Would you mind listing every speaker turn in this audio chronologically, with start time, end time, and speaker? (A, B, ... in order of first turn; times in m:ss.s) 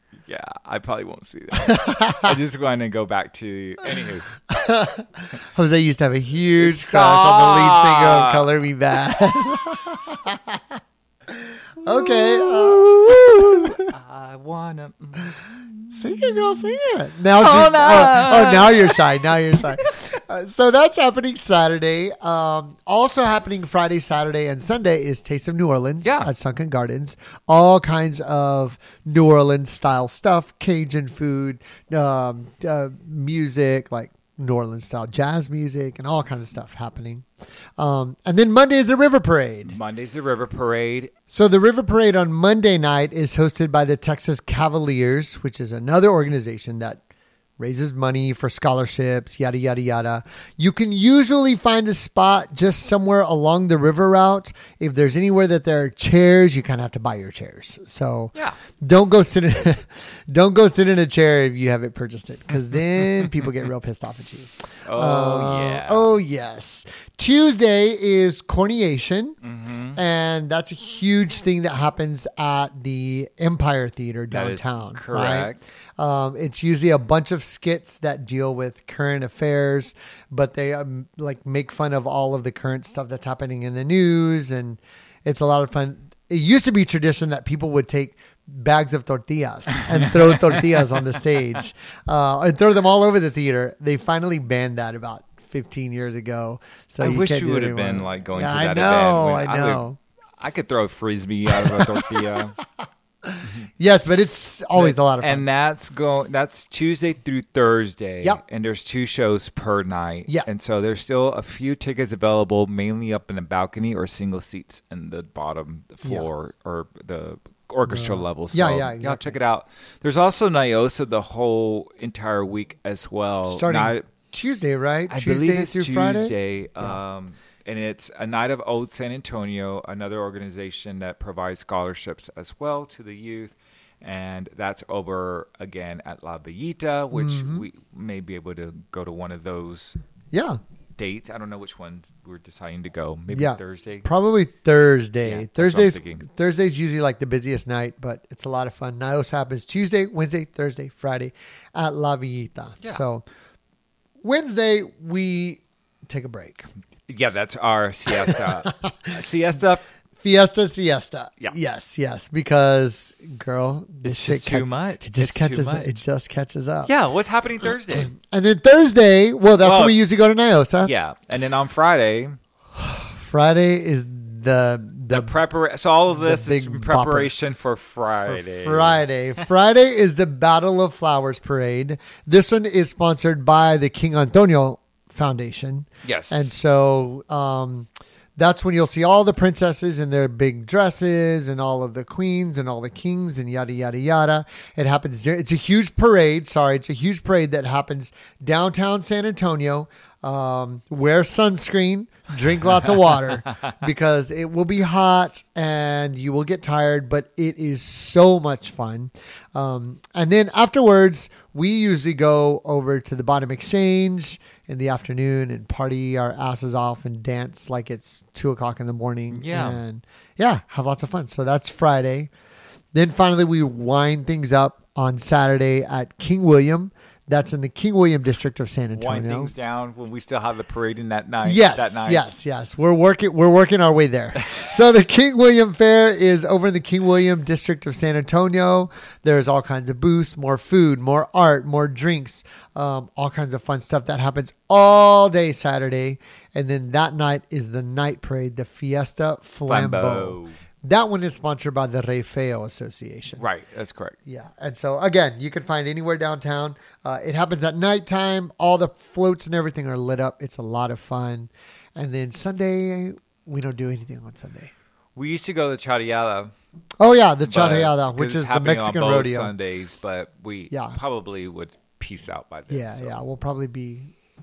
0:00.2-0:04.3 A
0:01.6-0:02.4 B
0:04.5-0:13.8 B
0:06.6-0:08.5 A
0:11.8-0:16.8 A
0:15.9-0:37.2 B
0:17.3-0:19.6 A
0:26.0-0:26.3 A
0:37.8-0:39.8 B
0:39.6-0:41.1 A
0:41.3-0:47.0 B
0:47.6-1:09.4 B
1:04.9-1:06.1 A
1:09.4-1:10.0 A
1:10.0-1:40.0 B
1:14.3-1:15.6 A
1:29.8-1:30.6 A
1:37.0-1:39.8 A
1:40.4-1:42.6 A
1:41.5-1:42.4 B
1:43.2-1:45.4 B
1:44.8-2:04.1 A
1:57.9-1:59.4 B
2:03.5-2:07.0 B
2:05.1-2:20.0 A
2:17.1-2:17.6 B
2:20.3-2:20.6 B
2:21.0-2:24.1 A
2:23.3-2:33.2 B
2:25.2-2:26.2 A
2:34.2-2:36.7 B
2:37.1-2:39.8 A
2:38.2-2:39.1 B
2:40.2-2:46.9 B
2:44.0-2:46.0 A
2:46.8-2:48.1 A
2:47.9-2:50.9 B
2:49.6-2:50.0 A
2:50.8-2:52.4 A
2:52.7-2:55.3 B
2:55.1-2:59.0 A
2:56.1-2:57.3 B
2:58.2-3:42.3 B
3:06.0-3:06.5 A
3:39.3-3:39.8 A
3:42.9-3:49.5 B
3:48.9-3:52.2 A
3:51.4-4:13.4 B
3:54.5-3:54.7 A
4:09.7-4:10.5 A
4:13.4-4:14.2 A
4:14.2-4:24.7 B
4:25.2-4:26.5 A
4:27.0-4:29.5 B
4:27.5-4:33.2 A
4:30.7-4:31.0 B
4:32.7-4:34.1 B